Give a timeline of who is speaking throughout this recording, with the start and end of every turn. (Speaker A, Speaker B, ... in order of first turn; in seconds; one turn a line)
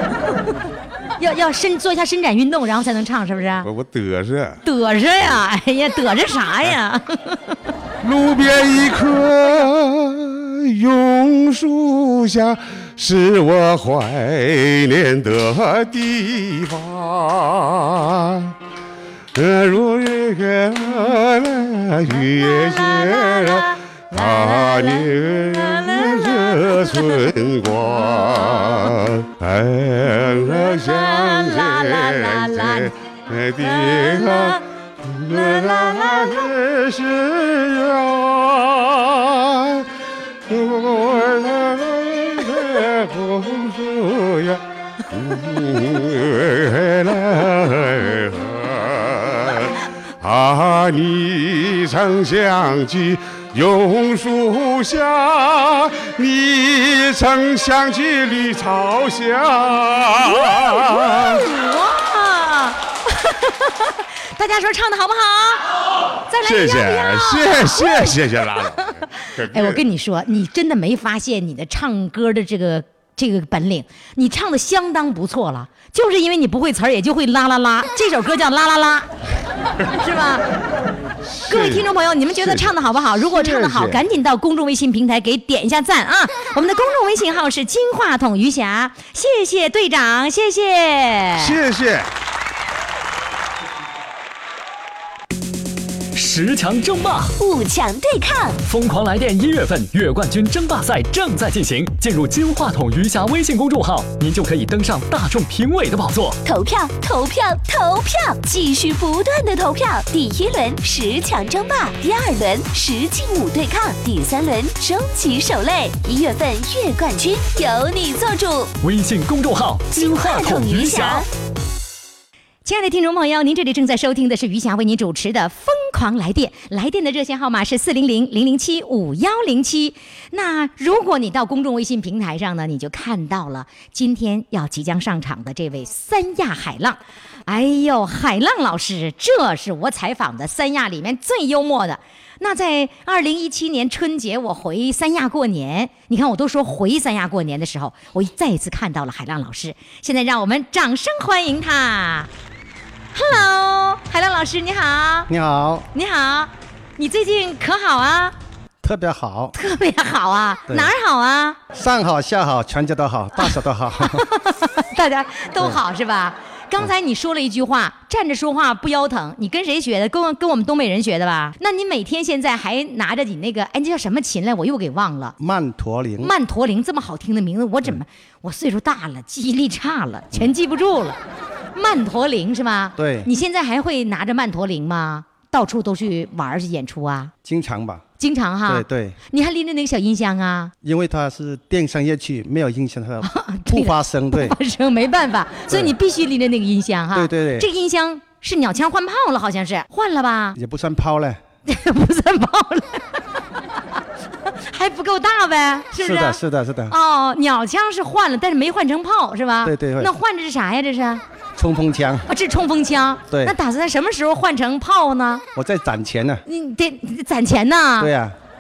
Speaker A: 1.2-3.7
Speaker B: 3.6-4.6
Speaker A: 4.6-7.4
Speaker B: 8.0-18.5
Speaker B: 19.3-39.9
Speaker A: 22.1-27.2
Speaker A: 30.4-32.9
Speaker A: 33.6-34.6
Speaker A: 35.3-36.5
Speaker B: 40.5-61.4
Speaker A: 60.3-65.7
Speaker A: 66.3-79.1
Speaker B: 66.4-69.8
Speaker A: 80.0-80.4
Speaker B: 81.2-81.9
Speaker A: 81.5-91.6
Speaker B: 82.4-84.0
Speaker B: 91.3-92.1
Speaker C: 96.1-97.3
Speaker D: 97.4-98.6
Speaker C: 98.6-106.4
Speaker D: 106.4-118.7
Speaker C: 118.8-121.2
Speaker D: 119.9-121.3
Speaker A: 122.6-152.3
Speaker A: 153.1-155.3
Speaker E: 155.3-155.9
Speaker A: 155.9-158.3
Speaker E: 158.8-159.5
Speaker A: 159.5-161.6
Speaker E: 161.7-164.2
Speaker A: 163.4-175.3
Speaker E: 175.4-176.3
Speaker A: 176.2-181.2
Speaker A: 181.7-187.3
Speaker E: 183.0-183.3
Speaker E: 187.4-188.0
Speaker A: 188.2-190.7
Speaker E: 188.7-189.2
Speaker E: 190.8-194.6
Speaker A: 193.2-200.6
Speaker E: 195.7-195.9
Speaker E: 197.1-197.7
Speaker E: 200.5-201.4
Speaker A: 201.7-203.2
Speaker A: 204.5-211.2
Speaker E: 206.0-206.9
Speaker E: 209.6-210.1
Speaker E: 211.6-212.3
Speaker A: 212.3-215.4
Speaker E: 213.3-213.5
Speaker E: 215.5-216.4
Speaker A: 216.4-218.1
Speaker E: 218.0-218.3